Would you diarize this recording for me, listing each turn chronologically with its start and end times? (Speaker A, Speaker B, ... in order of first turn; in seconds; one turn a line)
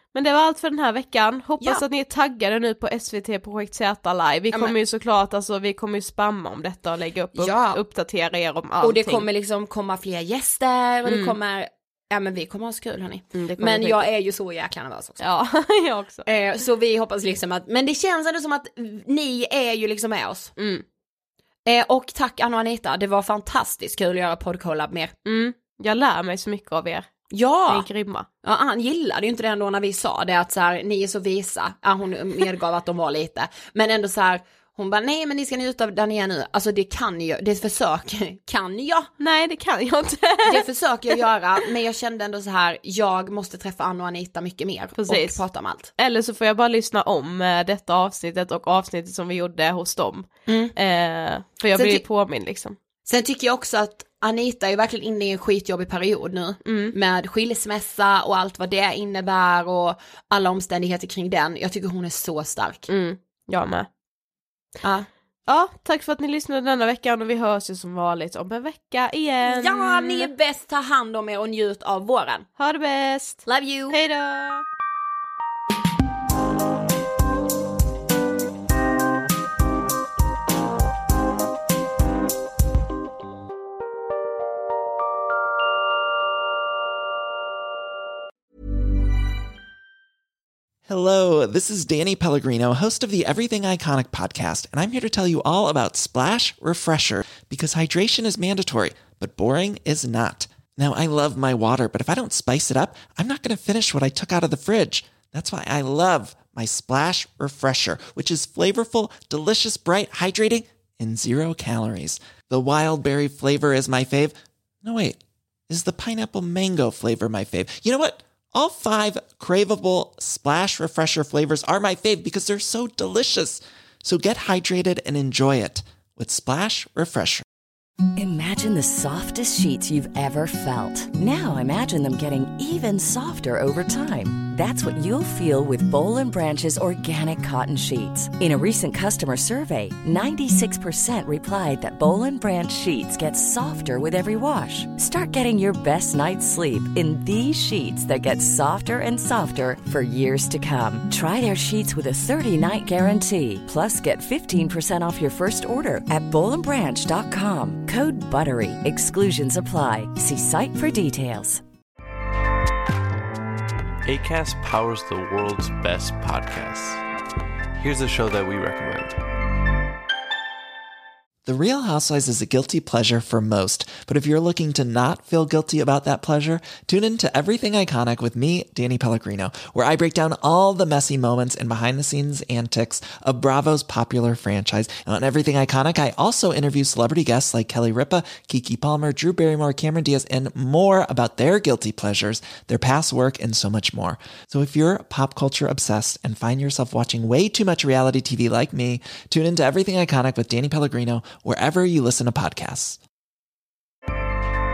Speaker A: 0.1-9.3
Speaker B: 7.4-7.8
Speaker B: 8.8-15.2
Speaker A: 11.1-11.4
Speaker A: 13.3-14.1
Speaker A: 15.2-16.3
Speaker B: 16.3-20.5
Speaker A: 20.6-20.8
Speaker B: 21.7-25.1
Speaker A: 25.2-27.1
Speaker B: 27.3-27.9
Speaker A: 27.7-28.3
Speaker B: 28.4-39.1
Speaker A: 39.2-41.2
Speaker B: 40.5-45.9
Speaker A: 45.0-45.4
Speaker A: 46.0-52.8
Speaker B: 50.5-50.7
Speaker B: 51.8-52.0
Speaker B: 53.1-62.9
Speaker A: 56.6-56.9
Speaker A: 62.9-63.9
Speaker A: 65.5-70.3
Speaker B: 69.5-72.5
Speaker A: 72.6-74.6
Speaker B: 73.5-74.0
Speaker C: 90.9-115.2
Speaker C: 115.7-127.4
Speaker D: 128.2-161.6
Speaker E: 164.0-167.0
Speaker E: 167.8-169.2
Speaker C: 171.5-203.0